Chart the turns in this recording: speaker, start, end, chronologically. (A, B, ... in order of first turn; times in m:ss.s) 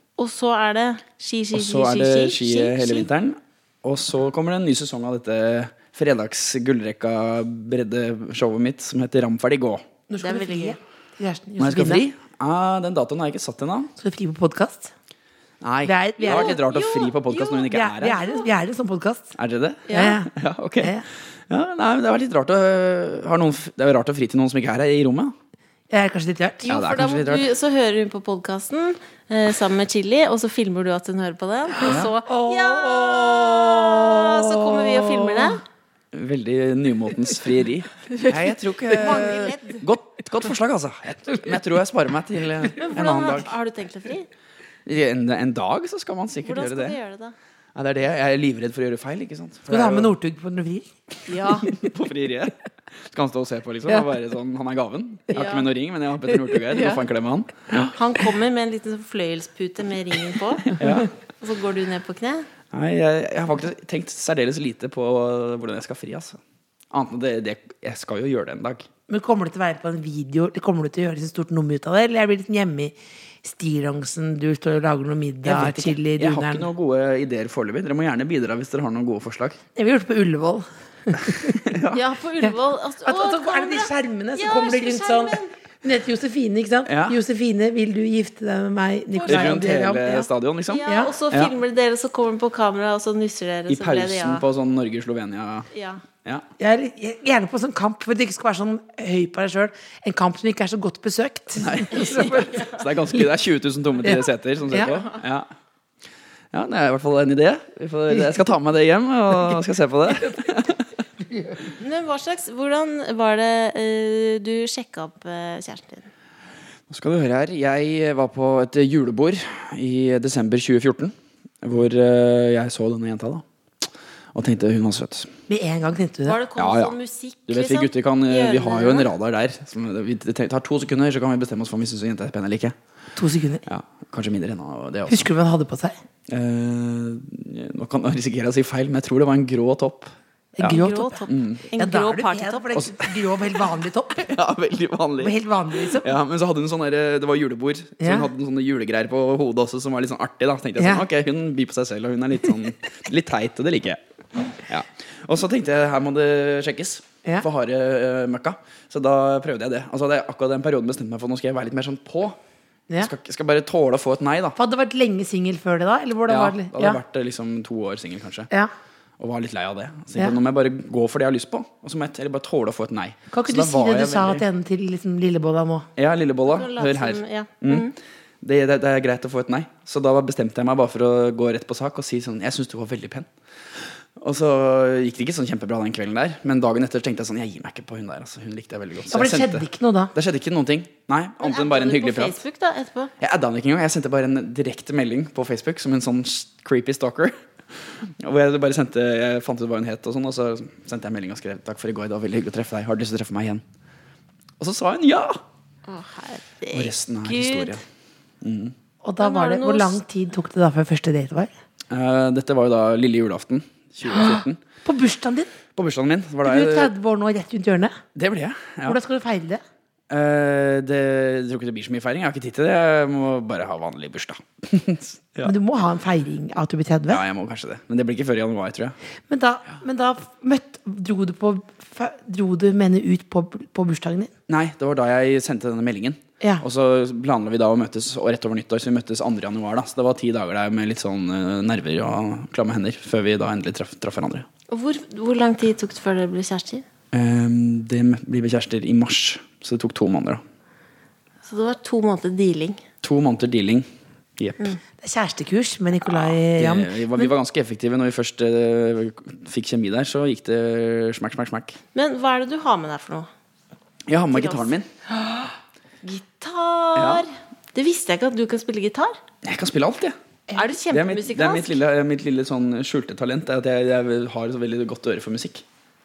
0:00.2-0:03.1 A
0:01.5-0:09.8 B
0:10.1-0:12.0 C
0:10.2-0:10.8 A
0:11.6-0:13.9 B
0:14.0-0:14.9 C
0:15.6-0:18.2 B
0:15.8-0:16.6 C
0:16.2-0:17.7 A
0:17.7-0:19.3 C
0:19.4-0:25.3 B
0:19.9-0:20.2 A
0:19.9-0:21.0 C
0:25.9-0:26.7 C
0:26.6-0:35.6 A
0:26.7-0:27.5 B
0:31.8-0:32.1 B
0:32.2-0:35.5 C
0:36.1-0:43.5 B
0:38.9-0:39.8 A
0:42.8-0:44.3 A
0:44.8-0:47.0 B
0:46.4-0:47.3 A
0:47.7-0:50.1 B
0:49.7-0:50.9 C
0:51.3-0:51.7 A
0:51.6-0:52.6 B
0:53.1-0:58.0 B
0:55.3-0:55.7 A
0:56.5-0:57.0 A
0:57.9-1:00.8 A
1:00.7-1:01.1 B
1:01.4-1:02.5 A
1:02.7-1:06.4 B
1:06.9-1:08.9 B
1:09.1-1:16.7 C
1:15.4-1:19.6 B
1:19.8-1:21.6 C
1:21.5-1:22.0 B
1:21.9-1:25.5 A
1:22.4-1:30.3 C
1:26.8-1:27.2 B
1:29.1-1:29.6 A
1:29.2-1:31.5 B
1:30.7-1:34.4 A
1:30.8-1:31.1 C
1:33.7-1:35.7 B
1:35.7-1:36.0 A
1:36.6-1:42.6 C
1:41.6-1:45.5 B
1:42.0-1:42.8 A
1:44.0-1:45.0 C
1:46.5-1:50.9 B
1:50.1-1:50.5 C
1:51.2-1:51.7 C
1:51.8-1:56.1 A
1:56.9-2:03.4 B
2:04.3-2:05.3 B
2:05.5-2:06.4 C
2:06.2-2:09.1 A
2:06.6-2:07.0 B
2:07.5-2:12.7 B
2:13.2-2:13.6 C
2:13.7-2:15.3 B
2:15.1-2:15.9 C
2:16.3-2:21.6 B
2:20.6-2:21.2 C
2:20.6-2:22.8 A
2:21.7-2:24.3 C
2:22.7-2:23.1 B
2:24.2-2:34.0 B
2:25.2-2:26.1 C
2:28.0-2:28.3 C
2:30.8-2:31.0 C
2:34.5-2:42.4 B
2:43.0-2:44.6 B
2:44.6-2:47.0 C
2:46.3-2:48.5 B
2:49.2-2:54.4 B
2:53.3-2:55.9 C
2:56.0-2:57.9 B
2:56.5-2:57.9 A
2:58.4-3:03.3 B
3:03.8-3:12.4 B
3:09.1-3:10.1 C
3:11.4-3:13.1 A
3:13.2-3:17.4 B
3:18.0-3:23.6 B
3:24.6-3:25.4 B
3:25.9-3:27.8 A
3:26.7-3:27.8 B
3:28.4-3:28.7 B
3:29.0-3:31.5 C
3:29.2-3:30.0 A
3:31.9-3:34.6 B
3:34.1-3:35.5 C
3:35.8-3:36.9 B
3:36.4-3:38.0 C
3:38.1-3:39.0 B
3:38.8-3:39.6 C
3:40.1-3:45.5 B
3:45.4-3:47.2 C
3:47.1-3:49.0 B
3:49.3-3:54.3 C
3:54.5-4:04.5 B
4:04.7-4:06.8 A
4:07.1-4:10.4 B
4:11.4-4:12.8 A
4:13.0-4:13.9 B
4:14.4-4:14.7 B
4:15.0-4:17.3 C
4:16.0-4:21.8 B
4:21.9-4:23.3 A
4:24.1-4:24.9 B
4:24.3-4:24.7 A
4:26.0-4:29.2 A
4:26.9-4:27.2 B
4:29.4-4:30.2 B
4:30.5-4:31.8 A
4:30.9-4:35.6 B